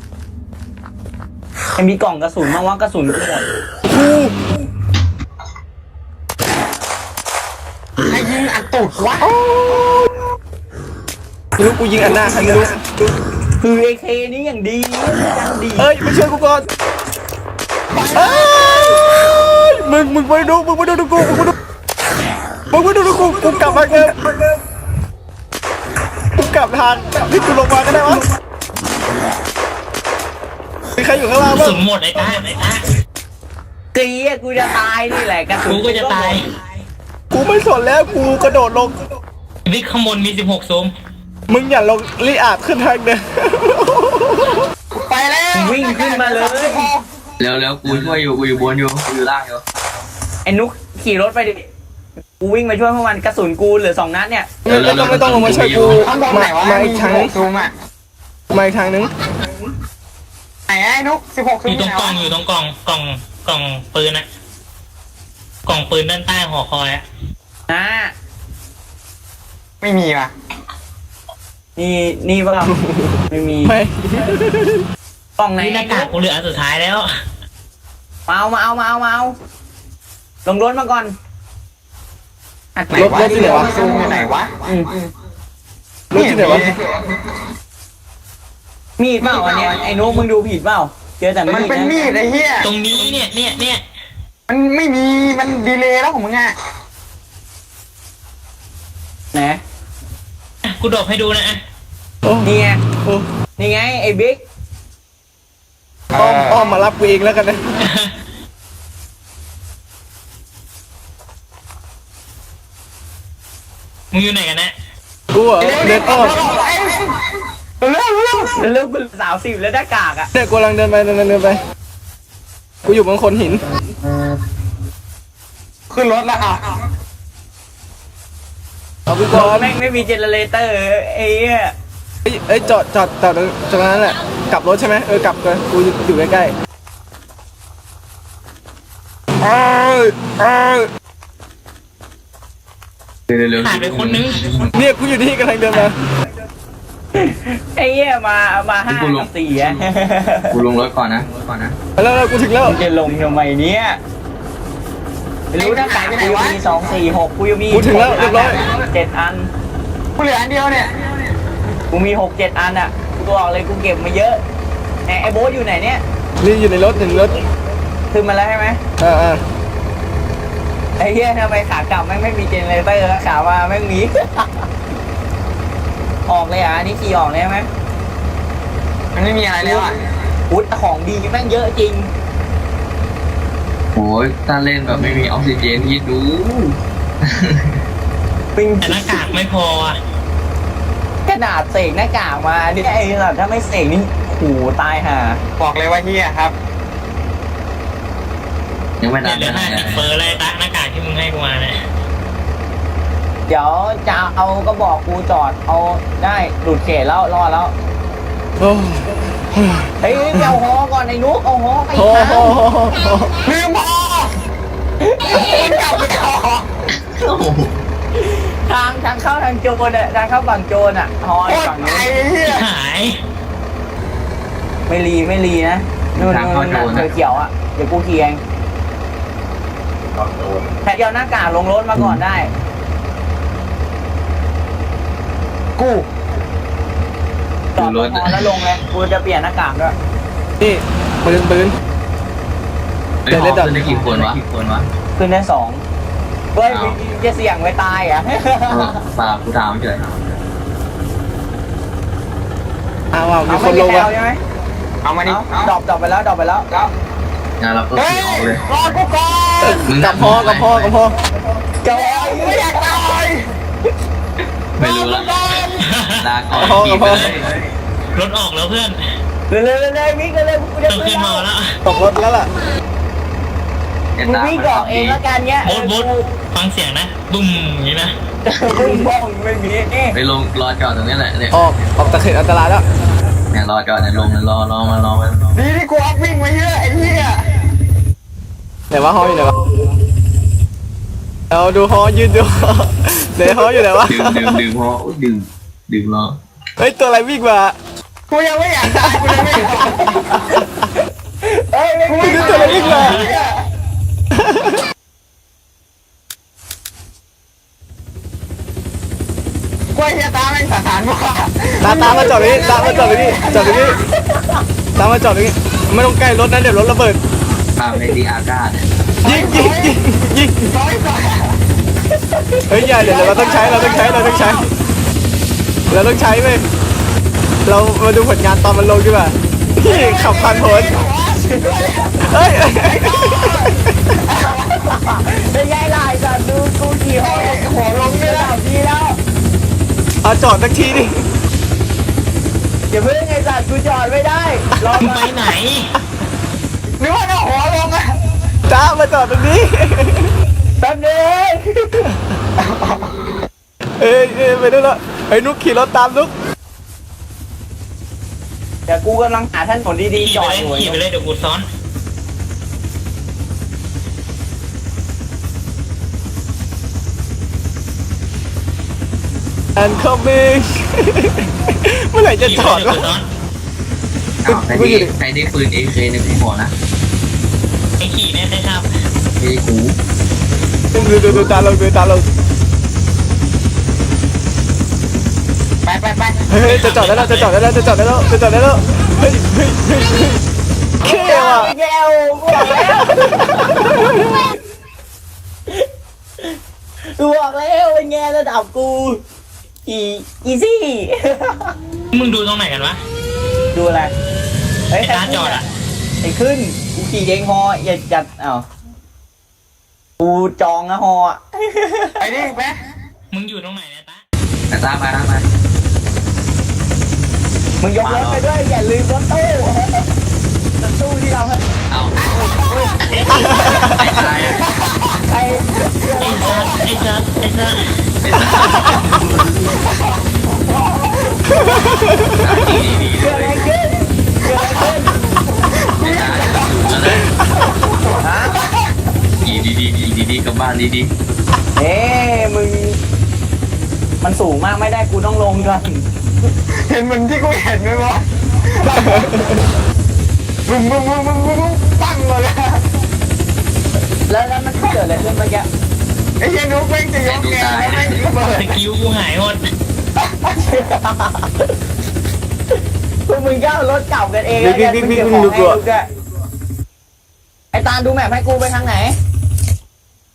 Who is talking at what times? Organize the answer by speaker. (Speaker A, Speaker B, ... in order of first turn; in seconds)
Speaker A: 1.8-3.4, 13.6-15.9, 33.9-36.4, 45.5-46.9, 50.4-51.6, 52.4-54.5, 67.7-68.1, 71.8-72.7, 73.3-73.8, 75.4-76.1, 78.3-79.3, 80.4-81.1, 82.8-84.1, 84.6-84.9, 89.0-92.0, 99.3-99.6, 102.4-102.8, 103.6-104.4, 118.6-120.3, 129.3-131.7, 147.1-150.6, 152.6-154.0, 155.5-159.5, 161.9-164.4, 165.1-166.0, 168.1-168.8, 171.0-174.7, 176.3-177.7, 180.5-182.1, 188.6-189.2, 191.2-195.4, 203.5-207.7, 210.0-212.6, 215.0-215.9, 218.2-222.1, 224.9-228.4, 230.8-232.5, 237.8-239.9, 245.2-245.8, 246.5-249.0, 253.4-254.4, 255.2-256.7, 261.8-262.9, 269.5-271.4, 274.2-276.3, 278.4-280.2, 301.4-303.4, 322.3-324.7, 331.5-331.9, 334.3-339.2, 342.9-345.4, 350.8-352.1, 358.9-361.0, 391.0-393.9, 396.4-399.2, 399.9-401.8, 403.7-404.1, 404.9-405.6, 406.2-408.6, 410.2-412.2, 417.8-420.1, 420.8-421.6, 422.4-423.9, 425.3-426.8, 433.1-435.1, 438.2-438.6, 441.8-443.0, 444.2-446.0, 454.3-455.7, 460.6-461.7, 463.3-466.1, 467.7-469.1
Speaker B: 3.9-4.3, 9.2-10.2, 11.6-12.8, 15.8-16.6, 18.1-21.5, 22.7-24.2, 26.3-28.2, 30.9-31.8, 37.3-39.0, 41.5-44.6, 54.6-57.3, 58.5-59.1, 72.8-74.8, 82.9-84.0, 86.1-86.7, 102.2-102.5, 106.1-107.6, 115.3-116.4, 120.3-121.6, 122.8-123.6, 129.1-129.7, 132.2-136.5, 139.4-140.9, 144.7-146.0, 152.0-152.8, 157.7-158.6, 166.4-167.4, 169.0-169.4, 208.6-210.6, 211.9-213.3, 240.6-241.7, 243.3-244.3, 253.1-254.1, 259.6-261.2, 266.5-267.3, 271.8-272.5, 281.5-282.8, 288.9-289.7, 291.5-294.6, 296.8-297.8, 298.9-299.8, 302.2-303.3, 304.3-304.8, 311.8-314.0, 314.9-317.2, 319.2-320.7, 322.7-324.6, 325.9-326.6, 327.6-330.9, 332.2-334.0, 340.2-341.2, 348.7-350.3, 354.0-356.3, 369.8-373.2, 374.5-375.1, 380.9-382.2, 386.5-390.4, 391.0-391.7, 392.7-394.5, 423.4-423.9, 431.6-432.6, 449.1-449.5, 464.6-465.8
Speaker C: 8.1-9.3, 17.9-18.6, 45.0-47.0, 55.9-57.7, 60.7-62.2, 69.8-70.3, 82.9-84.6, 86.1-86.8, 91.5-92.7, 94.5-96.5, 106.1-106.6, 115.6-117.1, 117.8-118.6, 125.9-126.8, 155.6-156.6, 160.2-160.9, 179.1-179.9, 195.6-196.5, 213.4-214.3, 215.2-216.7, 221.5-222.6, 235.8-236.1, 255.0-255.7, 257.9-259.9, 261.9-263.5, 264.8-265.9, 285.5-287.4, 298.3-300.3, 302.1-303.6, 309.9-314.0, 319.2-320.0, 320.6-321.5, 323.0-324.3, 329.8-334.6, 337.2-338.6, 347.0-348.1, 352.6-353.0, 385.8-386.4, 412.2-412.8, 422.3-422.9, 424.4-425.2, 429.7-431.8, 435.4-436.7, 437.6-438.8, 446.9-449.6, 450.6-452.8, 456.4-458.8, 460.2-460.5
Speaker D: 31.5-32.8, 35.7-36.5, 39.6-40.9, 61.6-64.2, 65.6-67.0, 75.6-77.1, 92.6-93.8, 100.6-101.6, 107.8-108.1, 114.1-114.7, 143.6-144.7, 188.8-190.0, 199.2-201.8, 222.4-223.2, 265.8-266.2, 268.1-269.0, 270.9-271.8, 275.6-278.1, 302.9-303.2, 345.0-345.9, 360.1-361.6, 372.4-373.3, 378.0-378.9, 386.6-387.5, 402.1-403.0, 405.0-405.6, 413.3-414.2, 426.2-427.9, 458.5-459.6
Speaker E: 47.4-49.6, 54.7-56.0, 143.3-144.7, 148.9-149.8, 150.5-151.8, 183.9-187.7, 199.0-200.1, 217.0-217.8, 226.2-227.1, 232.0-232.2, 237.8-238.6, 243.2-244.9, 246.6-247.0, 248.7-250.1, 257.6-259.0, 259.8-260.9, 264.8-267.5, 274.1-275.2, 280.1-281.7, 283.5-285.6, 294.0-296.4, 317.8-318.9, 374.4-376.7, 379.4-379.9, 414.7-415.4, 417.9-418.4, 421.9-422.3, 423.2-424.6, 428.2-429.5, 432.3-433.6, 436.0-437.3, 439.4-441.1, 457.2-458.2